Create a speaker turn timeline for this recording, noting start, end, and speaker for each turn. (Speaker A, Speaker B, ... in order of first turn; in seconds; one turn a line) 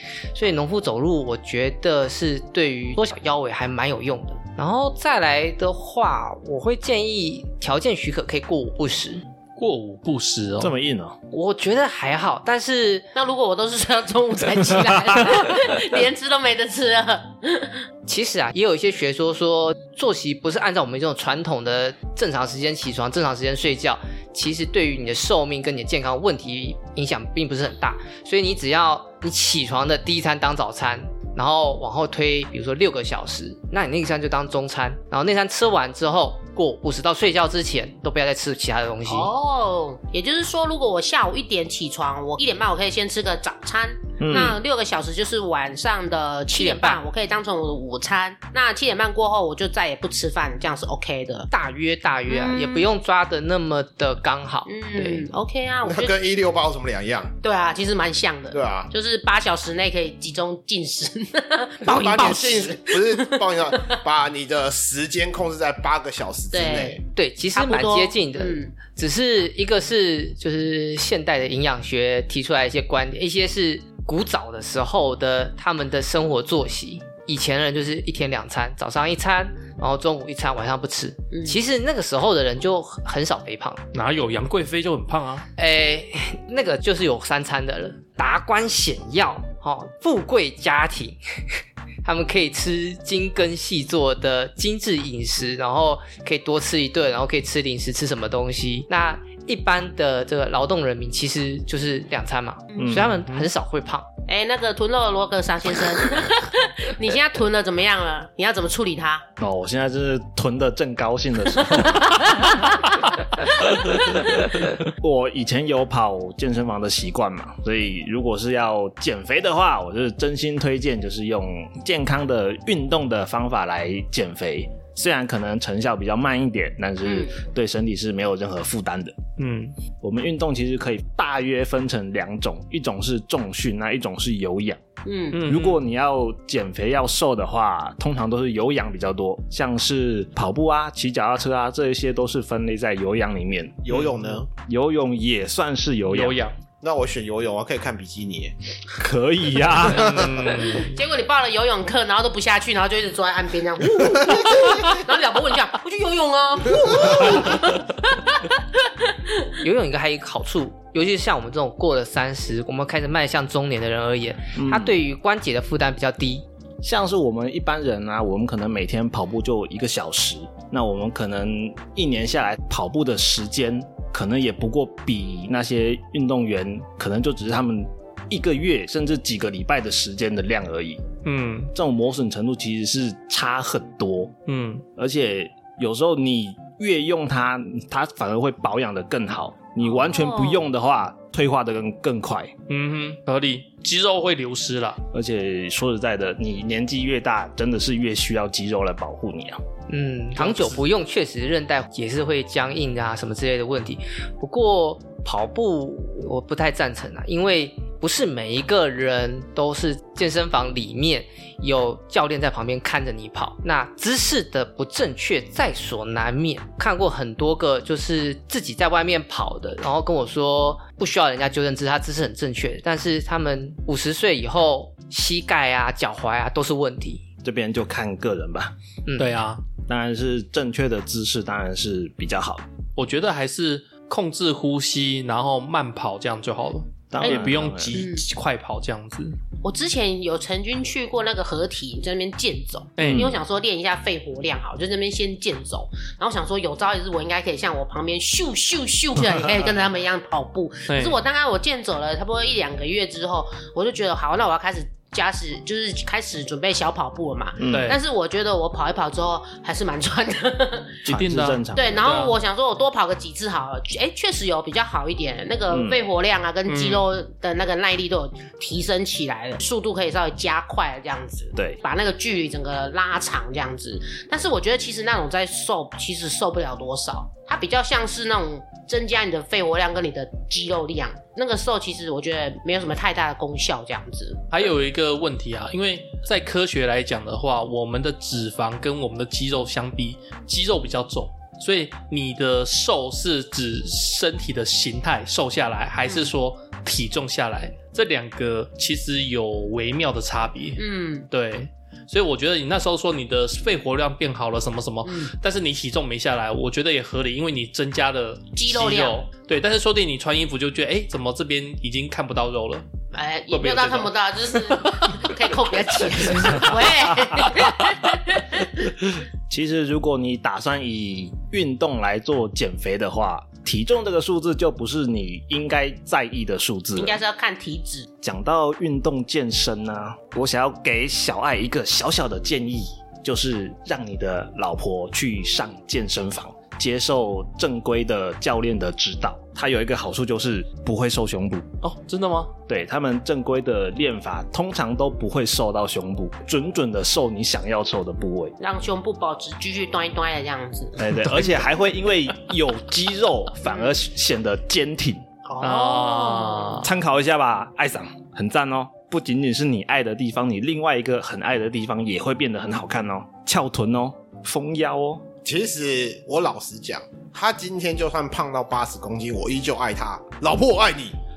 Speaker A: 0.3-9.2
Speaker B: 9.6-10.7
Speaker C: 10.6-11.2
Speaker A: 11.3-13.1
Speaker D: 13.1-17.8
Speaker A: 18.1-39.3
Speaker D: 39.1-51.5
Speaker C: 44.2-44.6
Speaker A: 46.5-47.0
Speaker A: 51.5-55.3
Speaker D: 52.3-52.9
Speaker D: 54.6-56.1
Speaker E: 55.9-57.4
Speaker D: 57.4-63.9
Speaker E: 58.5-58.9
Speaker E: 61.8-67.0
Speaker D: 66.5-67.0
Speaker A: 67.1-83.8
Speaker D: 67.5-68.7
Speaker D: 81.3-81.6
Speaker B: 83.9-85.5
Speaker A: 85.6-104.1
Speaker D: 102.7-103.0
Speaker C: 102.8-103.2
Speaker D: 104.3-109.2
Speaker C: 109.4-112.3
Speaker C: 114.4-129.2
Speaker D: 127.0-127.4
Speaker B: 129.4-129.8
Speaker C: 130.0-134.8
Speaker D: 135.1-135.4
Speaker B: 135.3-135.8
Speaker C: 135.4-143.9
Speaker E: 143.8-144.5
Speaker B: 143.9-144.4
Speaker C: 144.6-146.4
Speaker B: 146.1-146.6
Speaker E: 146.8-148.5
Speaker C: 149.0-150.4
Speaker B: 149.9-151.0
Speaker E: 149.9-150.3
Speaker D: 150.4-158.5
Speaker E: 154.3-154.8
Speaker E: 156.8-157.3
Speaker A: 159.6-166.4
Speaker C: 164.6-165.0
Speaker C: 166.8-181.0
Speaker B: 181.2-181.7
Speaker C: 181.7-184.3
Speaker B: 184.5-184.8
Speaker C: 184.9-192.5
Speaker D: 190.0-190.6
Speaker B: 192.7-195.0
Speaker C: 195.1-199.6
Speaker A: 199.9-227.2
Speaker B: 200.4-200.8
Speaker C: 227.4-228.7
Speaker A: 229.1-229.3
Speaker B: 229.2-229.6
Speaker C: 229.9-232.6
Speaker B: 233.0-239.4
Speaker C: 237.1-238.0
Speaker D: 237.2-238.2
Speaker D: 239.6-261.0
Speaker B: 243.0-243.4
Speaker C: 243.0-243.4
Speaker B: 250.9-251.2
Speaker C: 257.6-258.0
Speaker B: 257.7-258.0
Speaker C: 261.1-262.2
Speaker B: 261.1-262.4
Speaker D: 261.8-284.4
Speaker C: 265.7-266.0
Speaker B: 266.7-267.1
Speaker B: 284.5-312.8
Speaker D: 296.1-296.3
Speaker D: 300.8-301.3
Speaker D: 305.1-305.3
Speaker D: 308.6-309.2
Speaker D: 313.1-318.7
Speaker B: 313.5-315.4
Speaker B: 316.1-316.8
Speaker C: 319.5-327.2
Speaker D: 326.9-328.1
Speaker C: 328.2-341.7
Speaker B: 341.8-342.5
Speaker C: 342.7-348.6
Speaker D: 348.6-351.0
Speaker C: 351.0-355.2
Speaker D: 353.7-353.9
Speaker D: 355.4-356.9
Speaker B: 355.6-356.9
Speaker C: 356.8-365.3
Speaker E: 365.4-371.1